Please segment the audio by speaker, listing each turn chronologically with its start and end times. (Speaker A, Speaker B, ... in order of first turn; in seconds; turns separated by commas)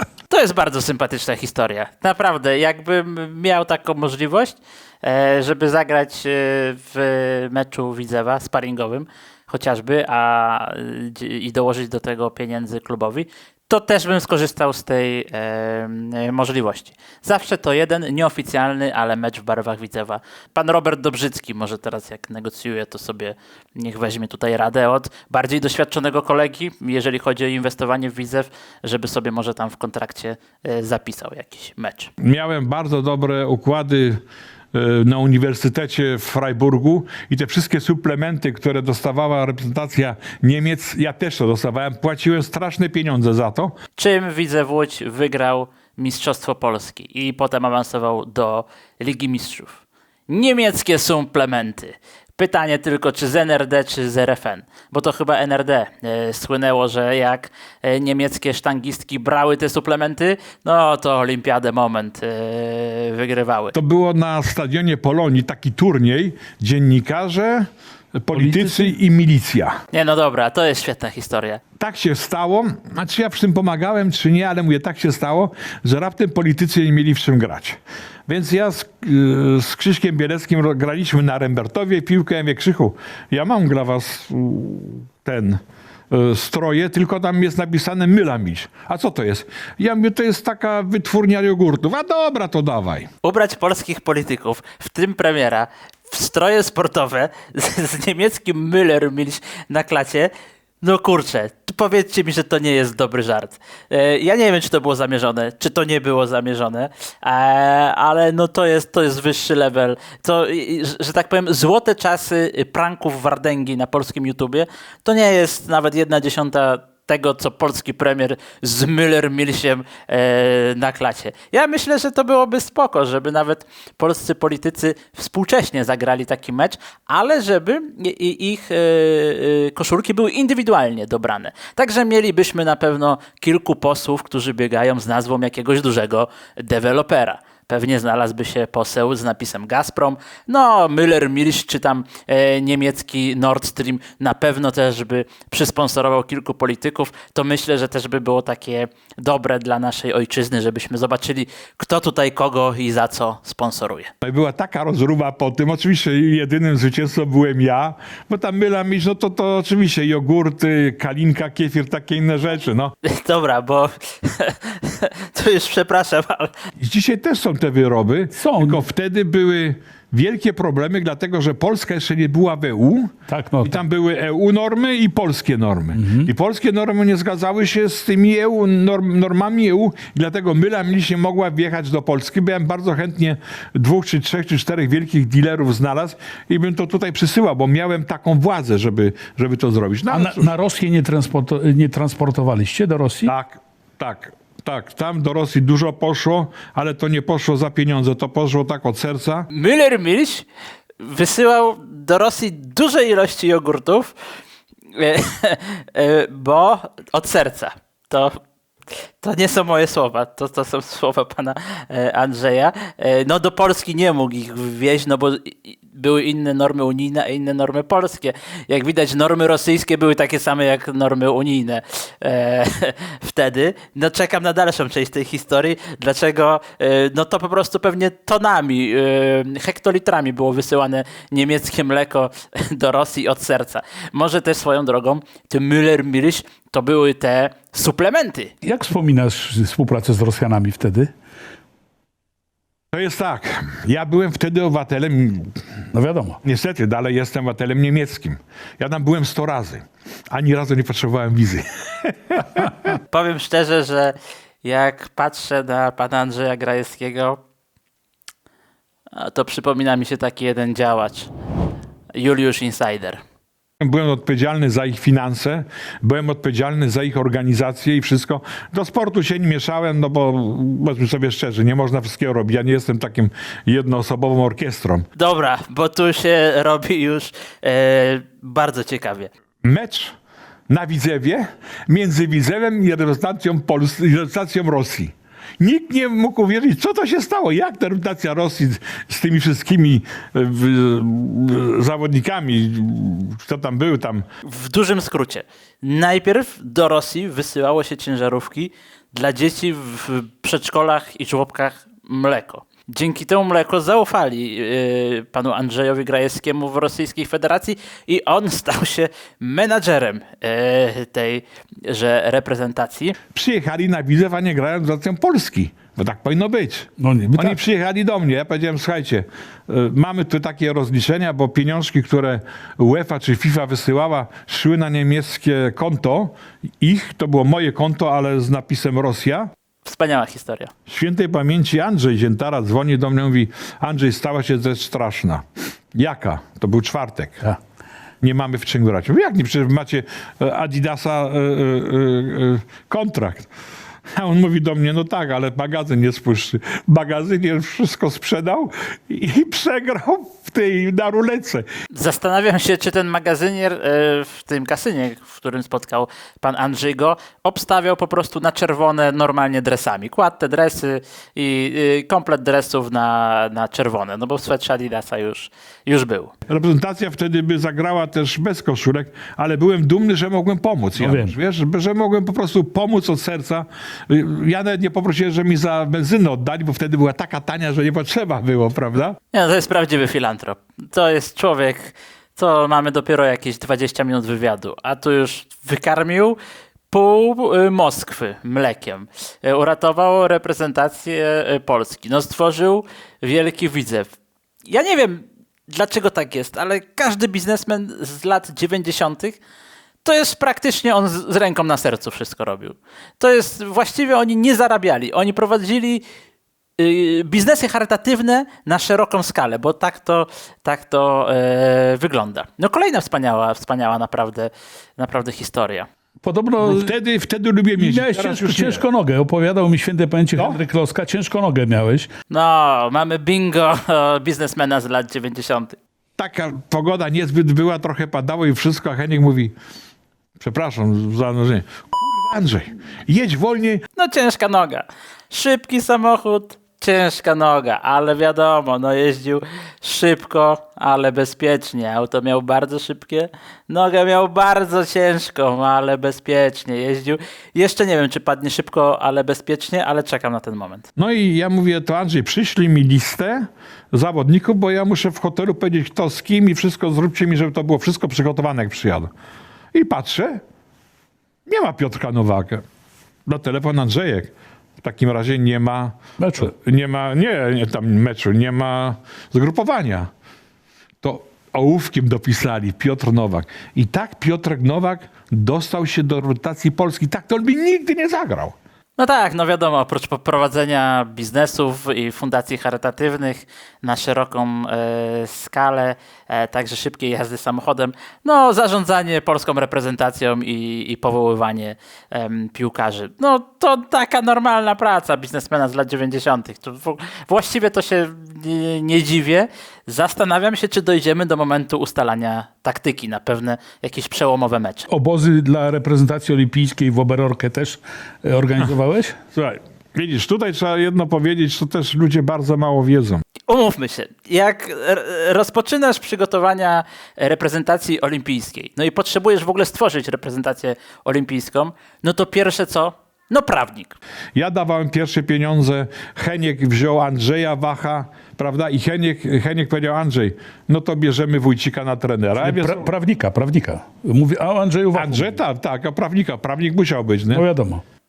Speaker A: 0.3-32.1, Speaker B: 32.2-43.8, Speaker A: 44.0-63.8, Speaker B: 63.7-69.8, Speaker C: 68.3-68.9, Speaker A: 69.9-71.6, Speaker B: 71.8-93.1, Speaker A: 93.2-154.1, Speaker B: 154.2-162.9, Speaker A: 163.0-166.5, Speaker B: 166.8-190.5, Speaker C: 168.4-168.8, Speaker C: 173.3-173.8, Speaker C: 175.9-176.3, Speaker C: 190.1-193.3, Speaker B: 193.3-199.5, Speaker A: 199.5-200.5, Speaker A: 201.0-204.1, Speaker A: 204.9-238.5, Speaker C: 238.6-241.1, Speaker B: 242.9-245.6, Speaker C: 245.9-246.4, Speaker B: 246.4-252.9, Speaker A: 253.0-257.4, Speaker A: 259.1-261.3, Speaker A: 262.1-263.2, Speaker B: 263.8-275.1, Speaker A: 275.2-279.3, Speaker B: 279.6-280.1, Speaker B: 280.7-294.3, Speaker A: 294.4-313.2, Speaker B: 313.3-329.5, Speaker C: 317.0-317.6, Speaker A: 329.8-330.7, Speaker B: 330.9-337.5, Speaker B: 338.2-343.5, Speaker B: 344.1-351.6, Speaker A: 351.9-366.3, Speaker B: 366.5-379.2, Speaker C: 371.0-371.4, Speaker A: 379.3-386.4, Speaker A: 386.9-394.1, Speaker A: 394.7-399.4, Speaker A: 400.0-406.0, Speaker A: 406.8-415.9, Speaker C: 416.2-416.9, Speaker B: 416.6-418.9, Speaker C: 417.8-422.1, Speaker A: 422.3-425.8, Speaker B: 426.2-429.5, Speaker B: 430.4-433.8, Speaker A: 434.0-450.9, Speaker B: 451.0-459.1, Speaker B: 459.7-460.4, Speaker B: 461.5-462.6, Speaker B: 463.3-470.1, Speaker C: 466.2-466.5, Speaker B: 471.0-478.6, Speaker A: 479.0-504.9, Speaker C: 504.9-509.2, Speaker B: 509.3-513.2, Speaker A: 513.5-524.0, Speaker B: 524.4-532.9, Speaker C: 532.4-535.3, Speaker B: 534.9-537.5, Speaker C: 537.3-537.8